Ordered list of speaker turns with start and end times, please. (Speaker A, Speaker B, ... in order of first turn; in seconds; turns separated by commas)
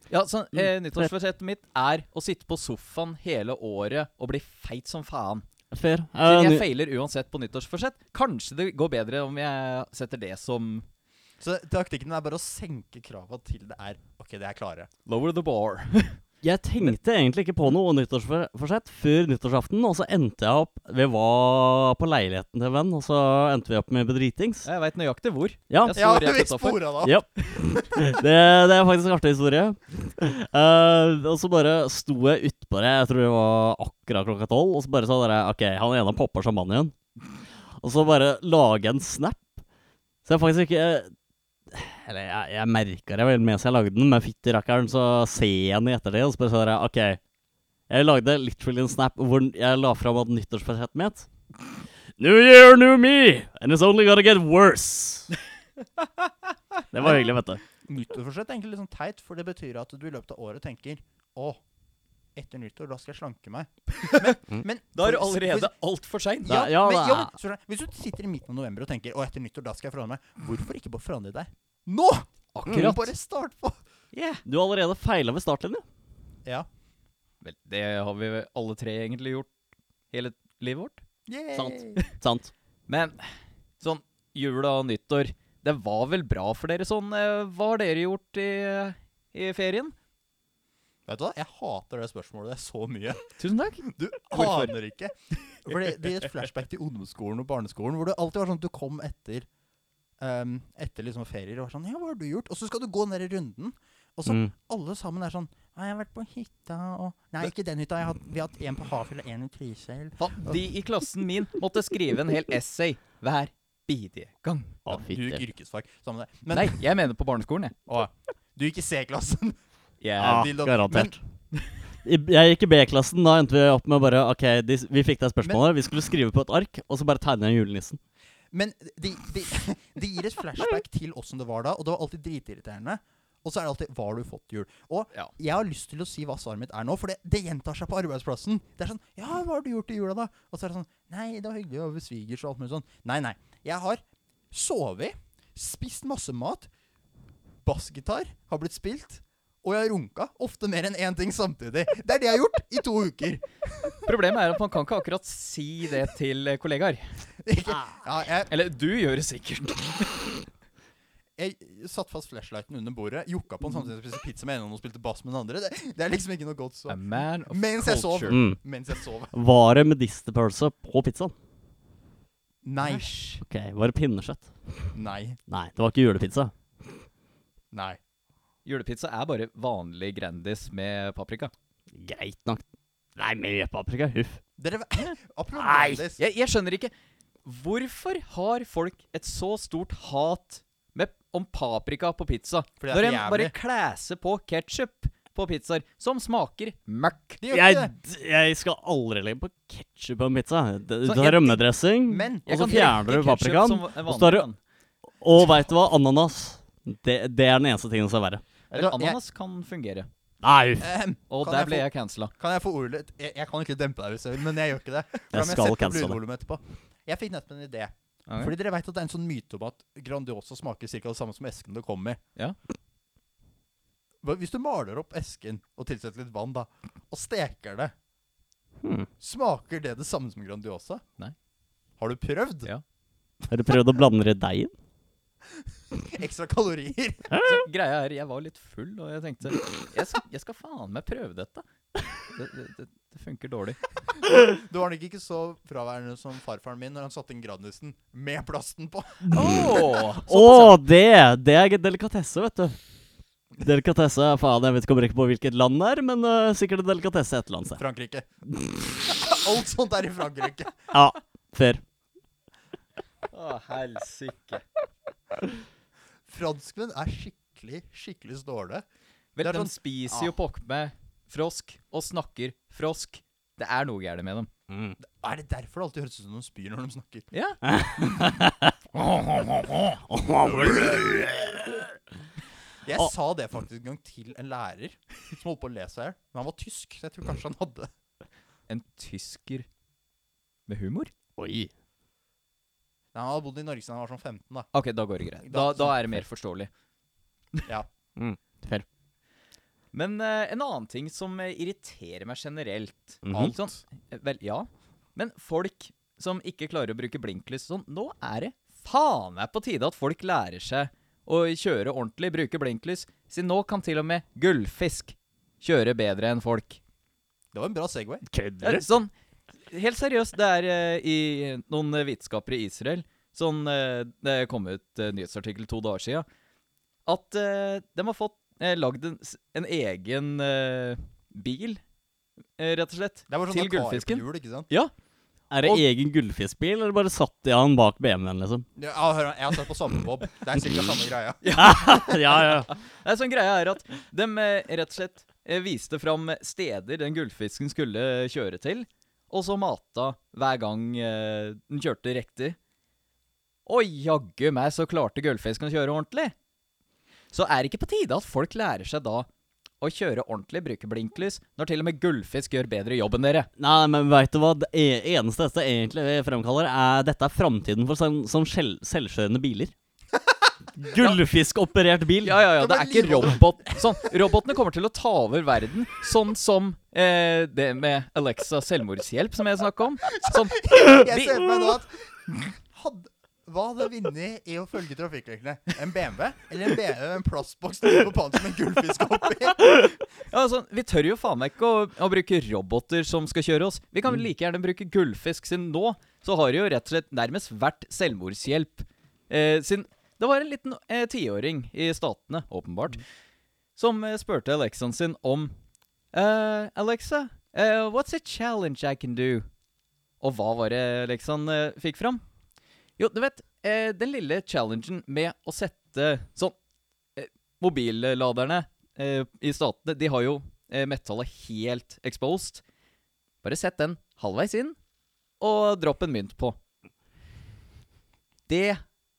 Speaker A: 0.1-5.5, Speaker B: 5.7-6.7, Speaker A: 6.2-10.9, Speaker C: 11.4-14.9, Speaker A: 15.1-16.2, Speaker B: 16.4-24.7, Speaker A: 24.6-26.8, Speaker B: 25.7-26.0, Speaker C: 25.9-27.2, Speaker B: 27.0-37.0, Speaker B: 37.8-39.4, Speaker B: 40.2-41.1, Speaker B: 41.7-47.2, Speaker B: 47.9-51.3, Speaker B: 52.2-55.3, Speaker A: 56.0-56.3, Speaker B: 56.9-57.6, Speaker C: 57.0-57.3, Speaker C: 57.9-61.6, Speaker C: 62.4-65.7, Speaker A: 64.1-64.4, Speaker A: 64.9-66.6, Speaker C: 66.5-73.8, Speaker B: 66.5-67.3, Speaker A: 72.5-73.1, Speaker A: 74.1-74.4, Speaker B: 74.5-75.8, Speaker A: 77.4-79.5, Speaker A: 80.1-81.0, Speaker C: 81.3-82.0, Speaker B: 81.5-82.5, Speaker A: 82.9-83.2, Speaker A: 83.8-90.0, Speaker C: 91.1-93.3, Speaker A: 93.4-94.7, Speaker C: 93.8-99.5, Speaker C: 100.2-110.6, Speaker B: 104.3-104.5, Speaker A: 110.2-114.8, Speaker B: 114.9-115.4, Speaker C: 114.9-116.8, Speaker A: 116.5-117.8, Speaker C: 117.9-119.6, Speaker A: 120.0-120.5, Speaker B: 120.2-121.2, Speaker C: 120.3-121.2, Speaker B: 122.0-128.0, Speaker C: 128.5-146.7, Speaker C: 147.6-154.1, Speaker A: 154.1-157.1, Speaker C: 157.4-158.5, Speaker A: 158.5-160.3, Speaker C: 161.4-169.3, Speaker A: 166.9-168.4, Speaker B: 168.3-168.6, Speaker B: 169.3-171.3, Speaker C: 172.6-173.2, Speaker B: 173.4-174.9, Speaker C: 174.9-175.4, Speaker B: 175.5-176.5, Speaker C: 177.7-178.0, Speaker A: 178.7-181.5, Speaker B: 182.0-182.6, Speaker B: 183.2-184.4, Speaker C: 184.6-186.2, Speaker B: 185.5-186.0, Speaker A: 186.2-186.9, Speaker A: 187.4-197.4, Speaker C: 192.8-193.5, Speaker C: 197.4-197.9, Speaker B: 197.5-204.5, Speaker A: 201.0-201.6, Speaker C: 202.1-203.1, Speaker A: 202.5-204.6, Speaker B: 205.2-208.4, Speaker C: 208.7-209.2, Speaker A: 208.7-210.1, Speaker B: 210.4-211.0, Speaker C: 210.8-222.2, Speaker A: 211.3-212.3, Speaker B: 215.3-216.2, Speaker A: 218.3-218.5, Speaker C: 224.2-227.9, Speaker B: 228.8-229.1, Speaker C: 229.2-231.0, Speaker C: 232.0-232.7, Speaker B: 233.5-234.7, Speaker C: 235.6-237.3, Speaker B: 237.3-237.7, Speaker A: 237.4-241.7, Speaker A: 242.3-243.8, Speaker C: 244.2-249.6, Speaker B: 249.3-249.5, Speaker A: 249.3-250.8, Speaker B: 250.3-252.8, Speaker B: 253.6-257.8, Speaker C: 257.8-258.3, Speaker B: 258.5-258.9, Speaker C: 259.1-260.8, Speaker B: 260.9-261.8, Speaker A: 263.3-264.6, Speaker C: 266.3-268.9, Speaker A: 269.4-274.5, Speaker C: 269.4-270.3, Speaker B: 274.7-275.0, Speaker C: 275.0-277.3, Speaker A: 277.3-277.6, Speaker B: 277.6-281.9, Speaker C: 280.5-281.1, Speaker C: 282.9-287.9, Speaker A: 288.7-289.7, Speaker A: 290.7-291.1, Speaker B: 291.4-291.7, Speaker C: 293.1-294.7, Speaker A: 294.7-296.7, Speaker C: 295.4-296.0, Speaker B: 298.2-298.9, Speaker A: 299.9-316.8, Speaker B: 303.3-303.5, Speaker C: 303.3-303.8, Speaker C: 317.5-318.2, Speaker B: 318.3-318.9, Speaker A: 318.6-319.1, Speaker A: 319.7-326.3, Speaker A: 327.1-331.8, Speaker A: 332.6-334.9, Speaker C: 333.3-334.7, Speaker B: 335.5-338.6, Speaker C: 338.8-342.4, Speaker A: 341.4-341.9, Speaker B: 341.5-342.7, Speaker A: 342.7-352.6, Speaker A: 353.7-356.3, Speaker A: 357.3-359.3, Speaker A: 359.8-363.5, Speaker B: 363.6-369.7, Speaker B: 370.8-372.4, Speaker A: 372.2-381.5, Speaker C: 372.6-374.0, Speaker C: 380.2-389.8, Speaker A: 390.3-403.0, Speaker A: 403.8-405.6, Speaker A: 406.1-409.5, Speaker A: 410.2-412.2, Speaker A: 413.0-416.6, Speaker A: 417.2-422.6, Speaker A: 423.4-424.8, Speaker A: 425.4-426.6, Speaker A: 428.5-428.8